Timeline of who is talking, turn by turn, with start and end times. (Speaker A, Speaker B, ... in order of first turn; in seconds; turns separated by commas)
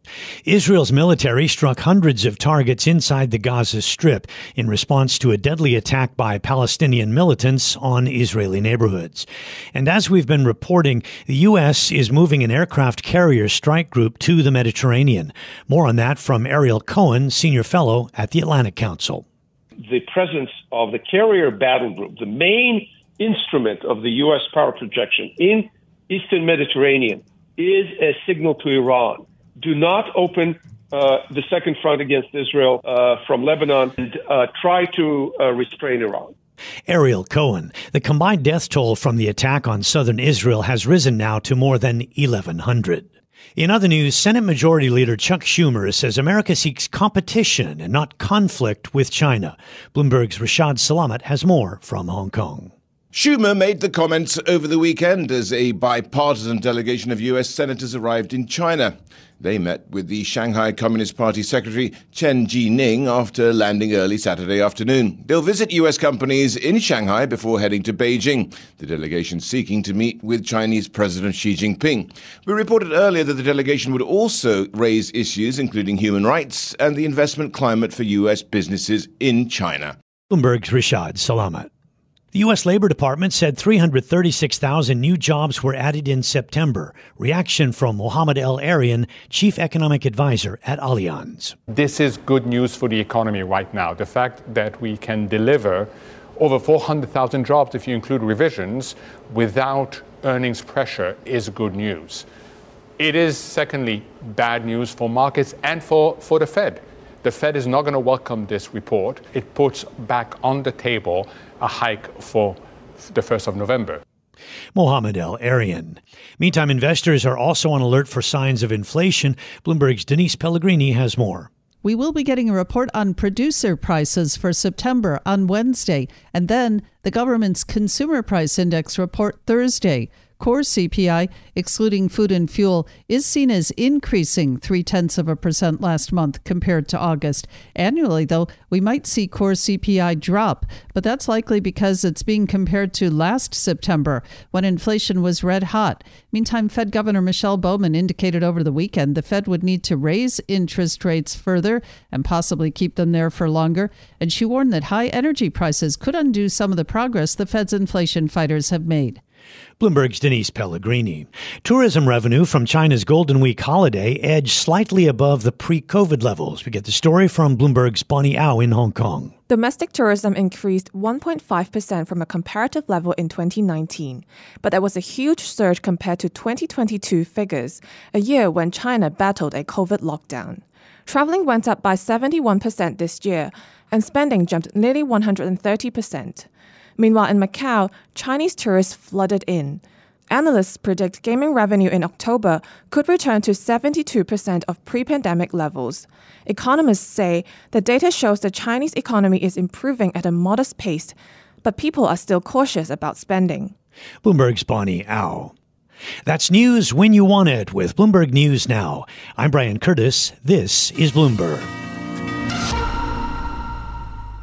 Speaker A: 0.5-19.2, Speaker B: 19.8-36.3, Speaker A: 36.9-52.7, Speaker C: 53.1-79.9, Speaker A: 80.3-81.7, Speaker A: 82.3-91.6, Speaker D: 91.7-102.2, Speaker D: 103.0-114.0, Speaker A: 114.7-121.5, Speaker E: 121.8-159.2, Speaker A: 159.8-169.3, Speaker F: 169.5-186.4, Speaker F: 187.0-203.7, Speaker A: 204.2-205.5, Speaker A: 206.2-211.7